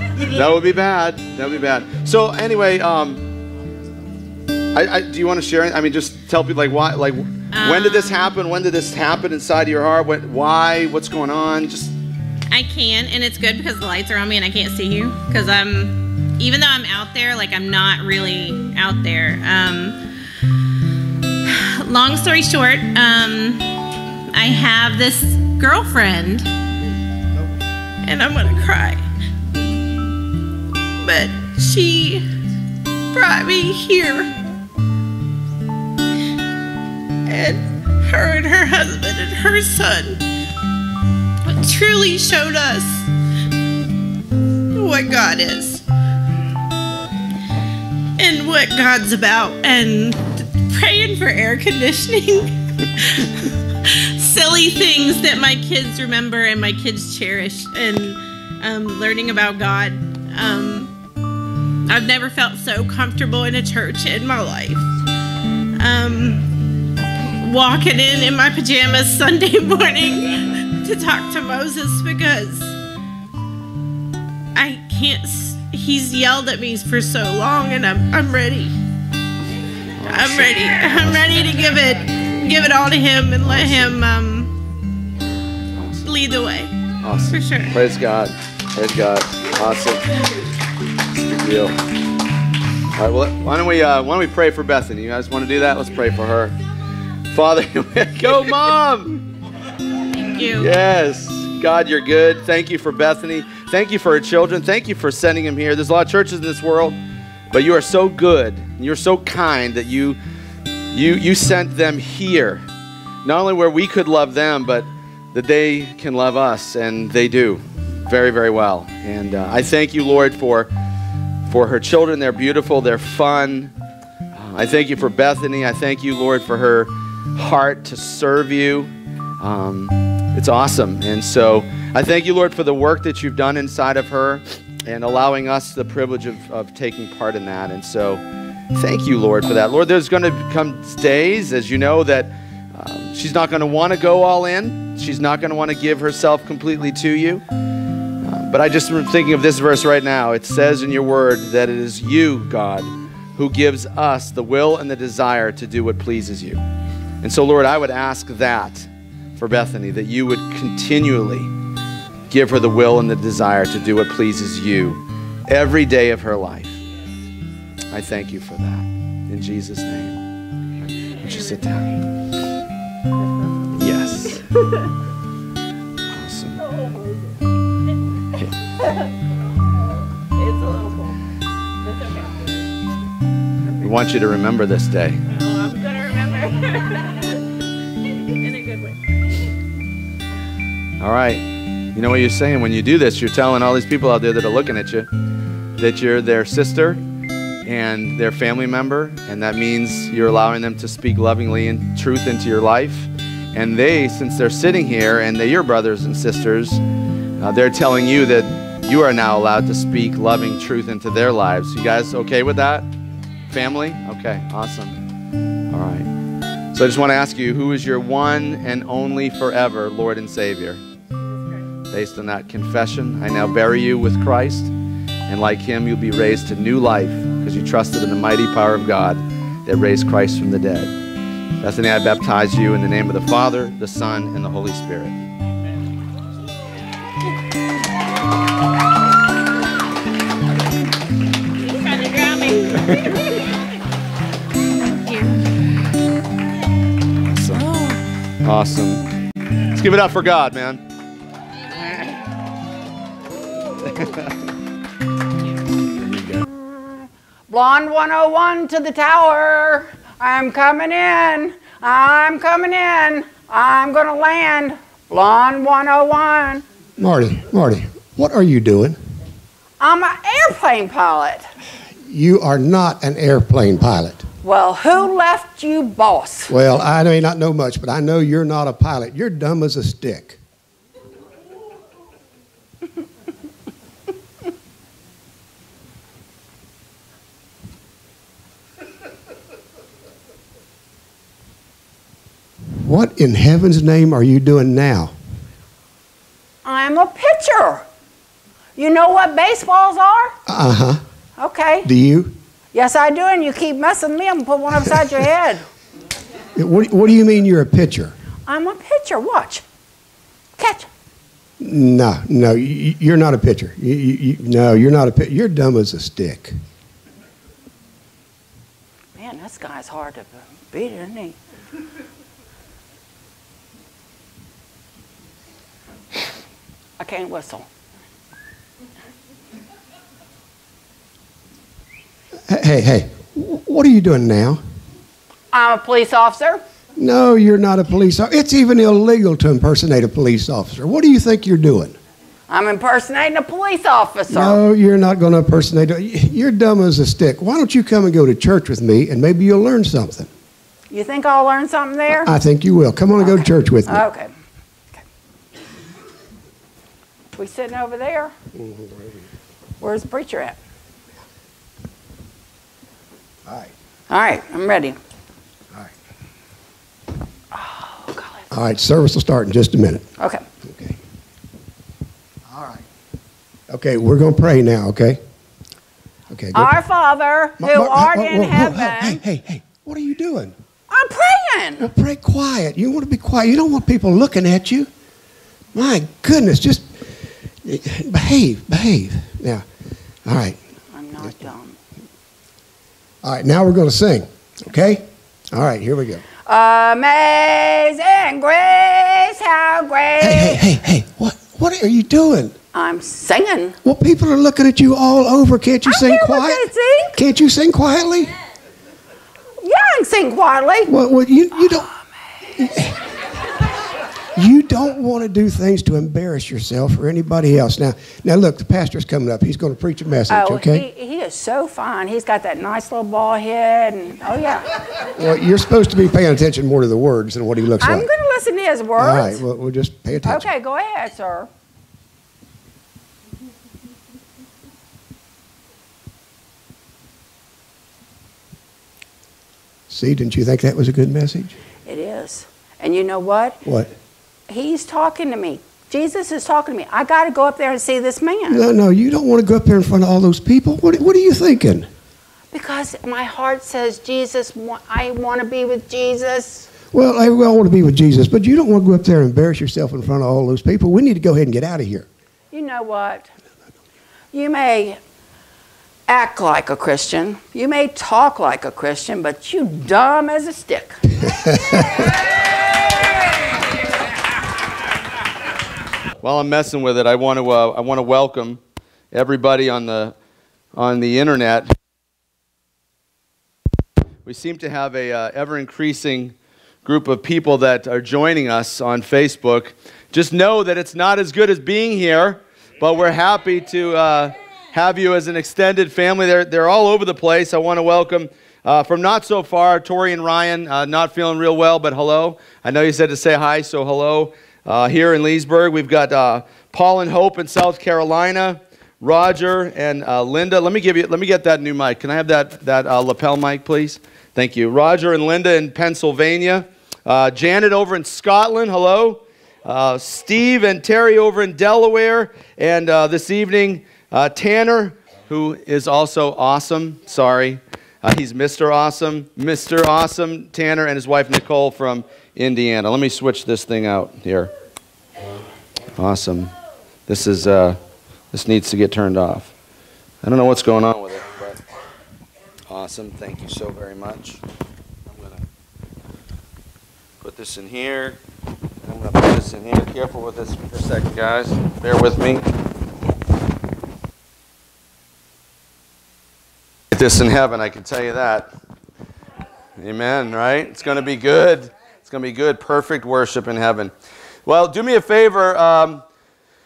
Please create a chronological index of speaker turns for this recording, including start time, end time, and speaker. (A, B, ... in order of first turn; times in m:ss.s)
0:00.2-0:03.2 A
0:04.7-0:11.9 A
0:07.5-0:08.3 B
0:12.5-0:20.0 B
0:21.4-0:23.7 B
0:24.3-0:26.5 B
0:28.0-0:29.0 B
0:31.0-0:32.2 B
0:33.1-0:34.3 B
0:37.3-0:40.2 B
0:41.5-0:43.1 B
0:44.7-0:45.8 B
0:48.2-1:00.9 B
1:01.9-1:04.9 B
1:05.8-1:06.5 B
1:07.3-1:12.8 B
1:14.6-1:18.7 B
1:20.0-1:21.8 A
1:20.1-1:24.6 B
1:23.5-1:24.0 A
1:25.7-1:26.1 A
1:26.0-1:26.7 B
1:27.0-1:30.1 A
1:27.3-1:27.7 B
1:31.1-1:31.8 A
1:33.0-1:36.5 A
1:37.3-1:39.2 A
1:40.2-1:40.7 B
1:40.6-1:47.0 A
1:47.5-1:50.2 A
1:50.9-1:52.6 A
1:53.2-2:00.7 A
2:01.5-2:03.7 A
2:04.3-2:18.2 A
2:18.7-2:27.4 A
2:28.2-2:36.6 A
2:37.2-2:41.5 A
2:42.3-2:46.8 A
2:47.9-2:50.2 A
2:51.2-2:52.0 A
2:53.7-2:54.4 A
2:56.1-2:56.6 A
2:56.8-2:57.1 B
3:00.4-3:01.2 B
3:03.8-3:05.2 A
3:05.3-3:07.3 B
3:08.2-3:09.0 B
3:11.0-3:15.1 A
3:15.8-3:17.0 A
3:17.6-3:26.8 A
3:27.4-3:32.9 A
3:33.5-3:35.0 A
3:35.7-3:36.1 A
3:36.7-3:40.8 A
3:41.9-3:44.7 A
3:45.3-3:50.9 A
3:51.6-3:55.2 A
4:01.6-4:03.3 B
4:02.8-4:03.2 A
4:04.8-4:05.5 B
4:07.3-4:07.7 A
4:07.6-4:08.0 B
4:08.4-4:09.0 A
4:09.7-4:10.8 A
4:13.8-4:14.3 A
4:16.0-4:16.4 A
4:16.5-4:26.6 C
4:27.0-4:29.0 D
4:29.8-4:31.5 C
4:32.0-4:34.2 D
4:34.4-4:36.5 C
4:36.5-4:40.4 D
4:52.8-4:55.1 D
4:56.6-4:57.9 C
4:58.8-5:00.4 C
5:00.5-5:01.0 D
5:01.4-5:01.9 C
5:01.8-5:02.4 D
5:02.7-5:05.6 C
5:06.6-5:08.1 D
5:08.5-5:09.6 C
5:10.6-5:10.9 C
5:11.6-5:16.5 D
5:19.2-5:21.4 C
5:27.0-5:27.7 C
5:32.5-5:34.6 D
5:35.5-5:36.6 C
5:37.0-5:42.0 D
5:42.5-5:44.6 C
5:44.3-5:50.3 D
5:50.9-5:52.3 C
5:52.3-5:54.0 D
5:53.2-5:54.3 C
5:57.4-5:58.4 C
5:58.6-5:59.2 D
5:59.8-6:00.6 C
6:04.1-6:05.0 C
6:07.5-6:08.5 C
6:08.5-6:10.1 D
6:10.2-6:10.4 C
6:10.6-6:11.0 D
6:12.5-6:12.8 D
6:13.7-6:15.2 D
6:16.3-6:16.8 D
6:16.5-6:19.2 C
6:17.6-6:20.5 D
6:20.9-6:21.9 C
6:21.8-6:24.9 D
6:25.7-6:27.1 D
6:27.6-6:29.6 D
6:30.2-6:30.6 D
6:30.9-6:31.8 C
6:33.2-6:36.2 D
6:36.5-6:40.6 C
6:40.2-6:42.6 D
6:42.7-6:43.8 C
6:43.8-6:48.3 D
6:45.9-6:47.2 C
6:49.6-6:51.0 C
6:50.9-6:51.9 D
6:52.6-6:53.1 D
6:54.4-7:00.9 D
7:00.3-7:04.8 C
7:05.2-7:08.1 D
7:07.8-7:09.4 C
7:09.0-7:10.5 D
7:10.3-7:11.5 C
7:19.9-7:21.5 D
7:21.9-7:23.6 C
7:23.6-7:23.9 D
7:24.5-7:28.7 C
7:28.5-7:31.9 D
7:32.5-7:36.7 C
7:36.9-7:42.1 D
7:42.5-7:43.3 C
7:44.3-7:45.0 C
7:46.1-7:51.1 C
7:51.5-7:52.0 D
7:56.2-7:58.6 A
7:59.1-8:00.1 A
8:00.7-8:01.7 A
8:04.2-8:54.5 A
8:56.0-8:56.5 A
8:57.1-8:57.8 A
8:58.3-8:59.5 A
9:00.2-9:01.6 A
9:02.7-9:04.4 A
9:05.1-9:05.4 A
9:07.2-9:08.2 A
9:08.8-9:12.5 A
9:16.9-9:18.5 A
9:19.8-9:23.9 A
9:24.5-9:26.0 A